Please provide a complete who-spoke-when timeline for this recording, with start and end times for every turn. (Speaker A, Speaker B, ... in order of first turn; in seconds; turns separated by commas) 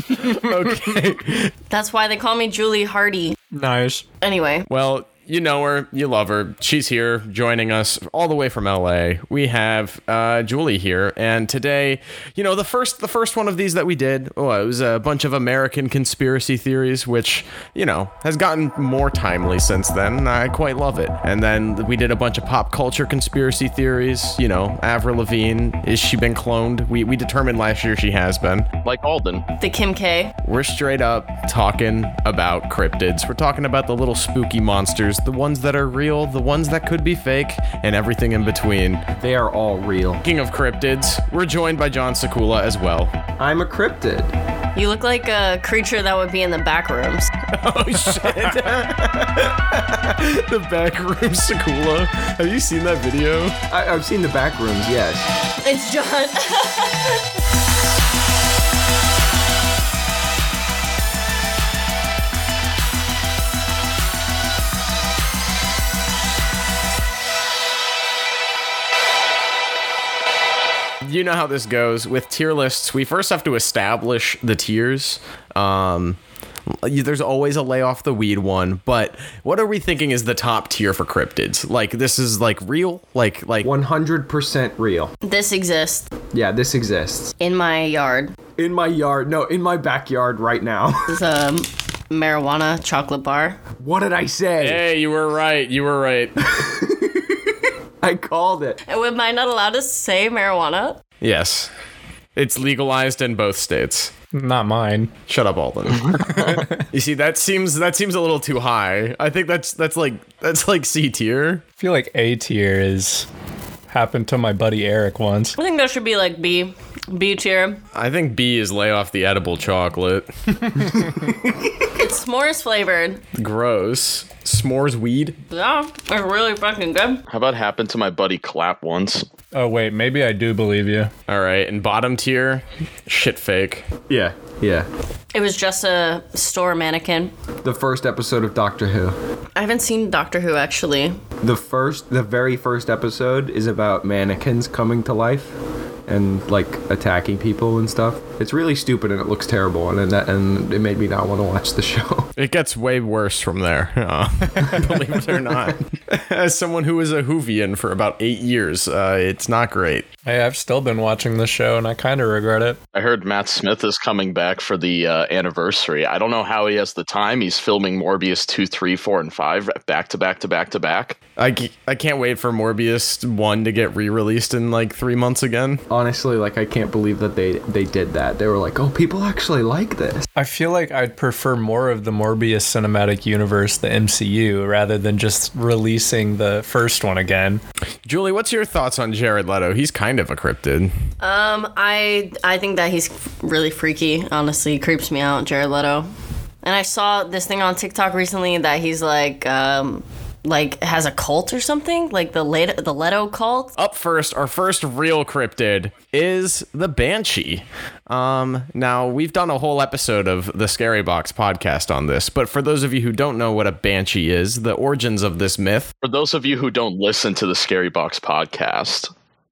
Speaker A: 0.1-1.5, Speaker B: 0.1-1.0, Speaker C: 1.7-3.4, Speaker B: 3.5-4.0, Speaker C: 4.2-4.7, Speaker A: 4.7-28.7, Speaker D: 28.8-29.4, Speaker C: 29.6-30.4, Speaker A: 30.4-39.0, Speaker E: 39.2-40.2, Speaker A: 40.2-43.1, Speaker E: 43.4-44.3, Speaker C: 44.8-47.3, Speaker A: 47.5-53.6, Speaker E: 53.7-55.3, Speaker C: 55.6-57.2, Speaker A: 71.0-76.2, Speaker A: 76.7-83.7, Speaker E: 83.6-85.1, Speaker C: 85.2-86.1, Speaker E: 86.3-87.3, Speaker C: 87.4-88.4, Speaker E: 88.6-91.2, Speaker C: 91.1-93.6, Speaker E: 93.8-94.8, Speaker A: 94.6-96.4, Speaker E: 96.4-98.8, Speaker C: 98.9-101.0, Speaker A: 101.2-101.7, Speaker A: 102.4-104.1, Speaker B: 104.3-105.2, Speaker A: 105.3-111.7, Speaker D: 106.1-106.5, Speaker B: 106.2-106.8, Speaker B: 111.8-113.3, Speaker B: 113.9-115.6, Speaker C: 115.6-117.8, Speaker A: 118.0-121.2, Speaker C: 121.9-123.2, Speaker A: 123.3-125.4, Speaker C: 125.5-127.2, Speaker D: 127.3-129.3, Speaker B: 129.5-131.1, Speaker A: 131.3-133.9, Speaker E: 134.1-134.9, Speaker C: 135.3-137.3, Speaker E: 137.6-139.2, Speaker C: 139.6-141.2, Speaker E: 141.4-145.6, Speaker E: 146.1-152.3, Speaker A: 152.4-160.1, Speaker E: 154.8-155.7, Speaker B: 160.2-162.8, Speaker D: 162.9-171.2, Speaker A: 171.4-175.8, Speaker E: 175.9-180.3, Speaker B: 180.4-187.6, Speaker A: 188.1-190.9, Speaker C: 191.2-196.1, Speaker C: 196.6-203.7, Speaker A: 203.8-215.9, Speaker D: 216.0-219.1